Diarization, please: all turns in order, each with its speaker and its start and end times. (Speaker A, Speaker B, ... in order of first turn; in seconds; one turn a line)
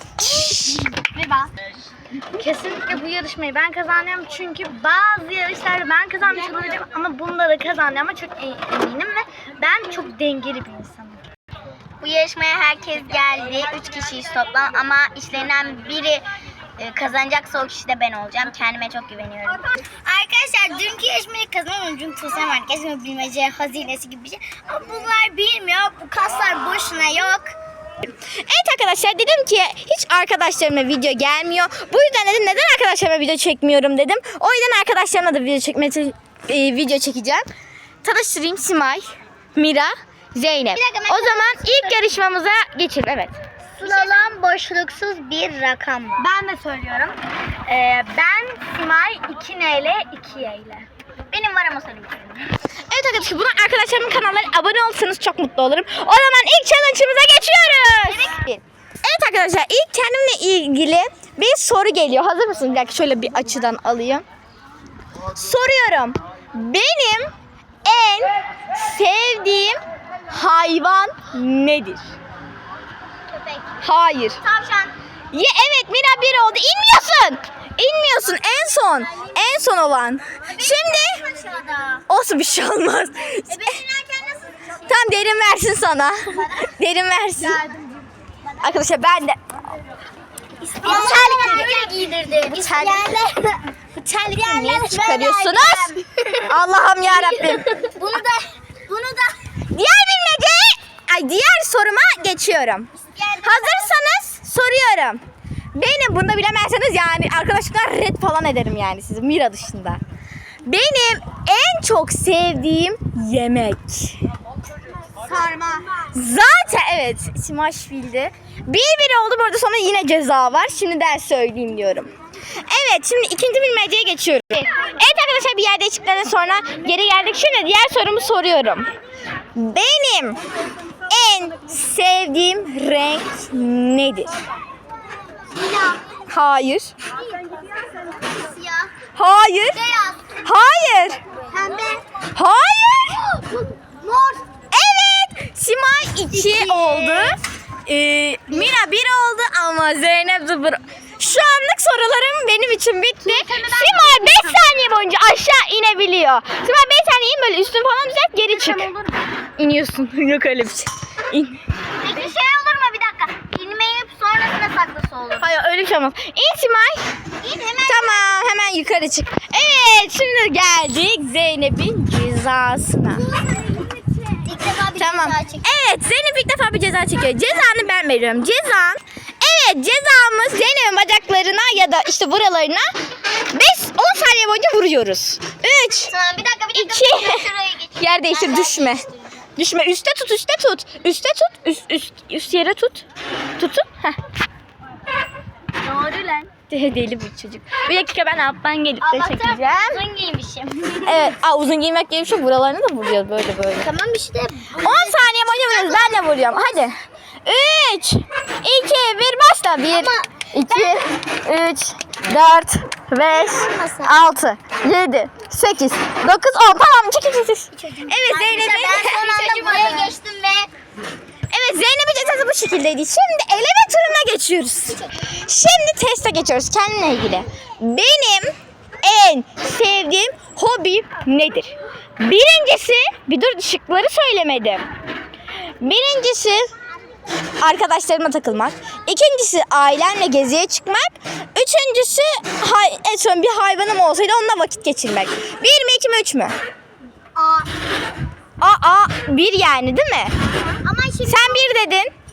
Speaker A: 0.2-0.9
Speaker B: 0.9-1.5
Speaker B: 2.3-11.2
Speaker C: 12.0-16.3
Speaker C: 16.8-27.6
Speaker A: 28.5-37.5
Speaker A: 38.0-44.2
Speaker C: 40.7-42.2
Speaker C: 43.8-46.3
Speaker B: 46.2-47.2
Speaker B: 47.7-50.9
Speaker C: 51.3-52.6
Speaker A: 52.9-64.2
Speaker C: 58.0-58.5
Speaker A: 65.3-67.3
Speaker A: 67.8-72.1
Speaker C: 73.3-73.7
Speaker A: 73.8-74.4
Speaker C: 74.4-75.0
Speaker A: 75.3-81.2
Speaker C: 80.5-82.0
Speaker A: 82.1-83.6
Speaker C: 83.5-84.9
Speaker A: 84.8-87.6
Speaker A: 88.6-89.4
Speaker C: 90.6-99.4
Speaker A: 90.8-91.8
Speaker A: 92.5-93.1
Speaker A: 94.0-97.7
Speaker A: 99.7-102.9
Speaker C: 103.0-104.0
Speaker A: 103.4-105.2
Speaker A: 105.7-110.0
Speaker A: 110.7-114.2
Speaker B: 115.2-115.9
Speaker A: 116.0-122.1
Speaker A: 122.7-128.9
Speaker A: 129.6-130.4
Speaker A: 131.1-134.3
Speaker C: 135.5-136.0
Speaker A: 136.3-136.9
Speaker C: 137.9-138.9
Speaker A: 139.2-139.8
Speaker C: 139.7-140.4
Speaker A: 140.4-141.2
Speaker C: 141.5-142.0
Speaker A: 142.3-143.3
Speaker C: 143.3-144.4
Speaker A: 144.7-158.9
Speaker C: 146.3-147.4
Speaker B: 153.2-154.7
Speaker B: 158.5-159.3
Speaker A: 159.6-161.6
Speaker C: 162.0-165.5
Speaker A: 165.4-167.1
Speaker C: 167.4-168.4
Speaker A: 167.8-173.3
Speaker B: 173.3-174.2
Speaker C: 174.4-175.7
Speaker A: 175.0-182.9
Speaker A: 183.5-186.1
Speaker C: 186.1-189.3
Speaker A: 186.7-189.1
Speaker A: 189.6-193.1
Speaker A: 193.6-194.2
Speaker C: 195.8-196.5
Speaker A: 196.7-200.0
Speaker C: 199.0-201.3
Speaker A: 201.0-203.9
Speaker C: 203.8-206.3
Speaker A: 204.8-220.1
Speaker C: 209.9-211.1
Speaker C: 213.3-214.2
Speaker C: 217.8-220.7
Speaker A: 221.5-234.8
Speaker A: 235.8-236.7
Speaker A: 237.6-246.5
Speaker C: 247.4-247.7
Speaker A: 248.6-250.3
Speaker C: 250.8-251.8
Speaker A: 251.2-252.1